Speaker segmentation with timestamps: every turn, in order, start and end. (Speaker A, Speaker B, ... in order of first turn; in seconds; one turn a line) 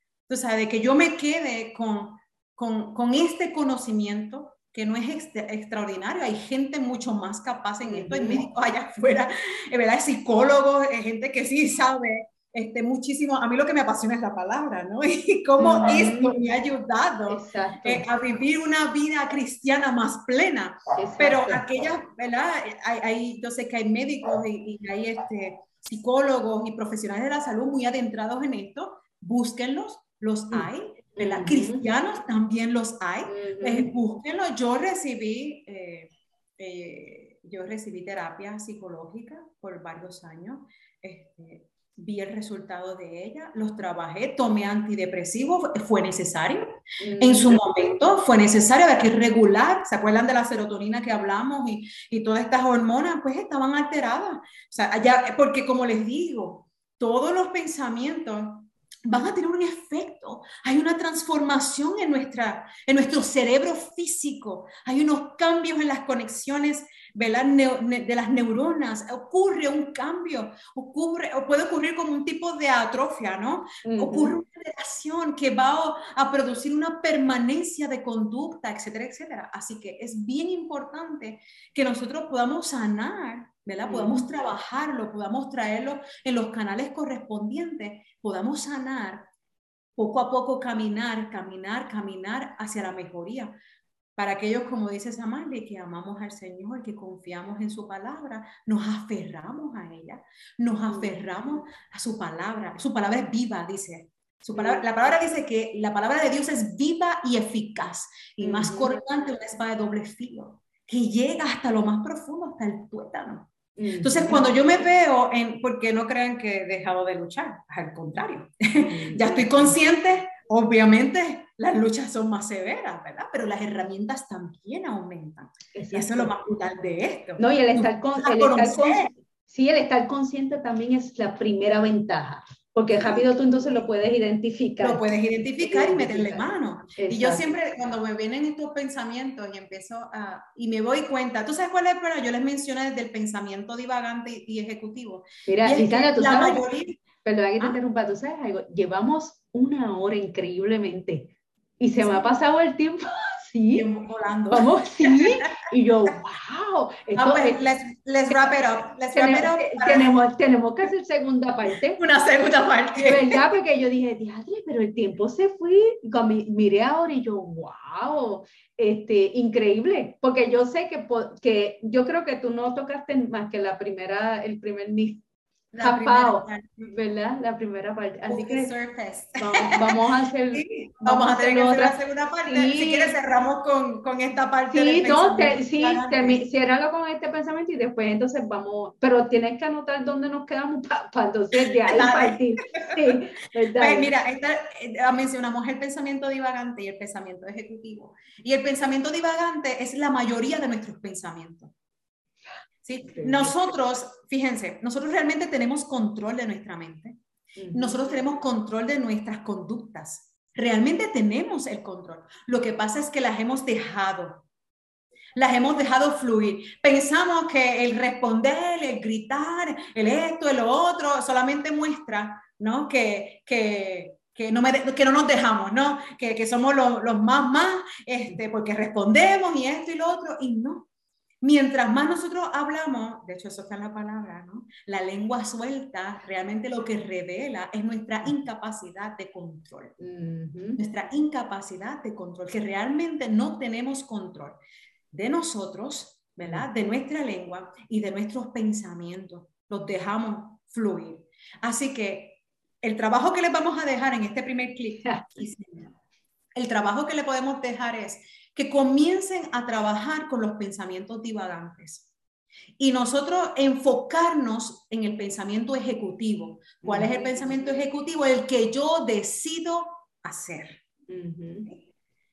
Speaker A: 0.3-89.3
Speaker B: 7.8-8.4
Speaker B: 15.6-16.4
Speaker B: 17.3-18.1
Speaker B: 21.0-21.6
Speaker B: 30.5-31.9
Speaker B: 33.3-33.9
Speaker B: 47.0-47.6
Speaker B: 73.8-74.4
Speaker B: 83.8-84.3
Speaker A: 90.0-93.5
Speaker A: 94.2-129.1
Speaker B: 100.9-101.7
Speaker B: 104.5-104.8
Speaker B: 108.4-109.0
Speaker B: 113.8-114.5
Speaker B: 118.8-119.7
Speaker B: 125.7-126.3
Speaker B: 127.4-135.0
Speaker A: 132.9-133.2
Speaker A: 134.8-147.0
Speaker B: 135.6-137.5
Speaker B: 145.4-146.6
Speaker B: 147.2-153.9
Speaker A: 153.7-155.5
Speaker B: 154.5-157.7
Speaker A: 157.1-160.2
Speaker B: 159.1-162.0
Speaker A: 162.0-163.4
Speaker B: 163.0-175.2
Speaker A: 175.7-176.7
Speaker B: 175.8-178.7
Speaker A: 178.3-180.0
Speaker B: 179.4-183.2
Speaker A: 180.5-186.4
Speaker B: 184.7-194.1
Speaker A: 191.6-193.2
Speaker A: 193.8-201.7
Speaker A: 202.8-207.2
Speaker B: 203.1-203.6
Speaker B: 207.6-208.2
Speaker A: 207.7-214.4
Speaker A: 215.3-230.9
Speaker A: 231.4-239.9
Speaker B: 240.0-240.8
Speaker A: 240.8-244.6
Speaker A: 245.1-255.9
Speaker B: 255.1-255.4
Speaker A: 256.6-262.1
Speaker A: 262.8-270.8
Speaker B: 266.8-267.8
Speaker B: 271.1-271.7